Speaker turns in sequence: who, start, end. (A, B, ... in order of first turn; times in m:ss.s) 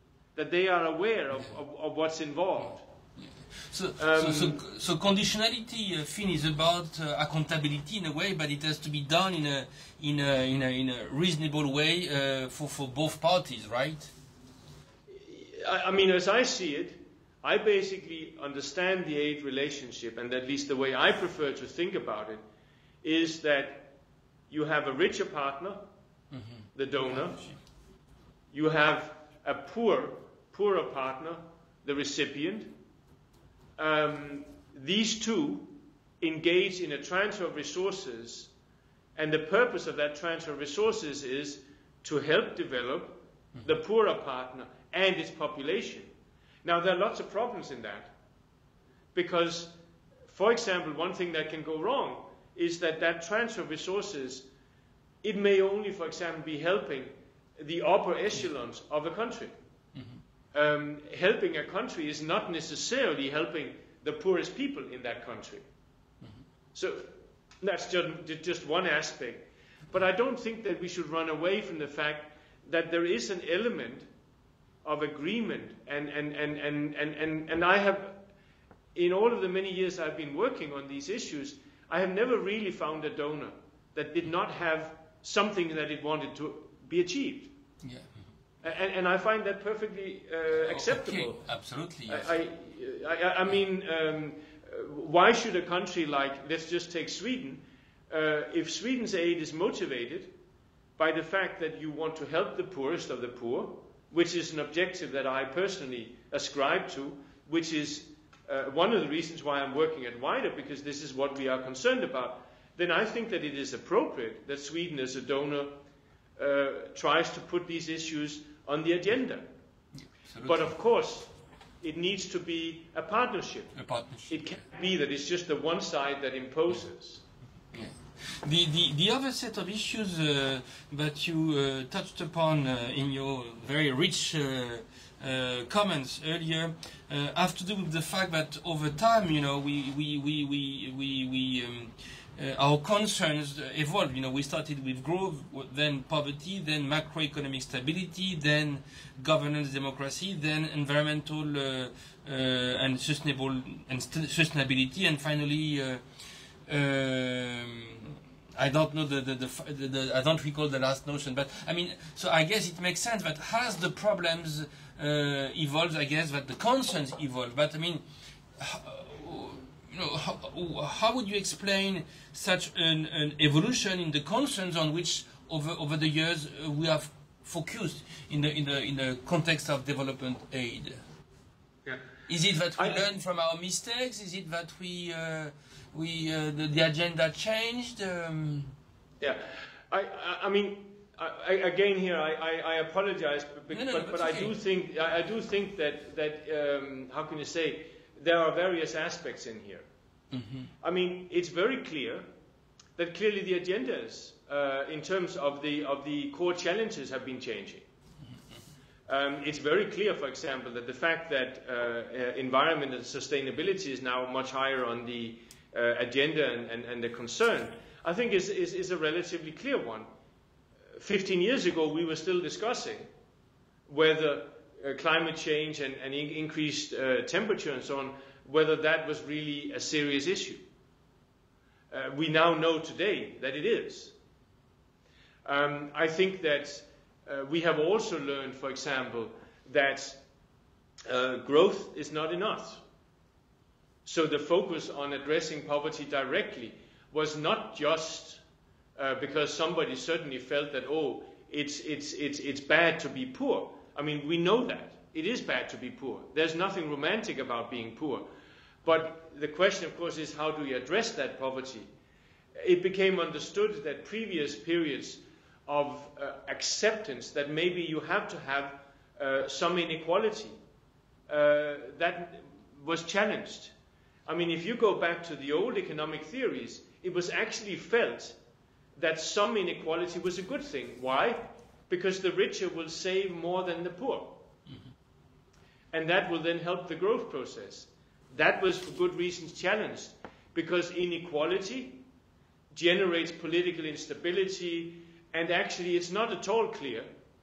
0:00.4-0:02.9 A
0:03.2-0:14.1 B
0:04.0-0:04.6 A
0:15.1-0:22.4 A
0:23.0-0:24.0 A
0:24.5-0:25.9 A
0:26.3-0:27.5 B
0:26.7-0:27.4 A
0:28.5-0:32.7 A
0:33.8-0:38.5 A
0:39.2-0:46.1 A
0:46.6-0:48.1 A
0:49.1-0:49.7 A
0:50.3-0:54.5 A
0:55.2-0:59.6 A
1:00.5-1:05.7 A
1:06.7-1:14.0 A
1:14.8-1:18.2 A
1:18.9-1:27.5 A
1:27.8-1:28.1 B
1:28.6-1:31.4 A
1:30.7-1:32.3 B
1:32.1-1:40.3 A
1:41.0-1:55.8 A
1:56.4-1:59.5 A
2:00.0-2:00.7 B
2:00.4-2:03.8 A
2:03.7-2:04.4 B
2:04.3-2:07.2 A
2:07.7-2:36.0 B
2:36.6-2:48.0 B
2:48.6-3:01.0 B
3:02.3-3:08.7 B
3:09.2-3:19.8 A
3:13.7-3:14.5 B
3:20.3-3:20.7 B
3:20.8-3:22.2 A
3:23.0-3:27.8 A
3:29.1-3:40.1 A
3:41.0-3:43.1 A
3:43.9-3:50.6 A
3:51.9-3:54.1 A
3:55.4-4:00.2 A
4:01.1-4:02.8 A
4:04.0-4:08.4 A
4:09.0-4:18.3 A
4:18.8-4:21.9 A
4:22.6-4:30.5 A
4:31.3-4:33.7 A
4:34.2-4:38.4 A
4:39.0-4:44.5 A
4:45.9-4:52.0 A
4:52.7-4:57.1 A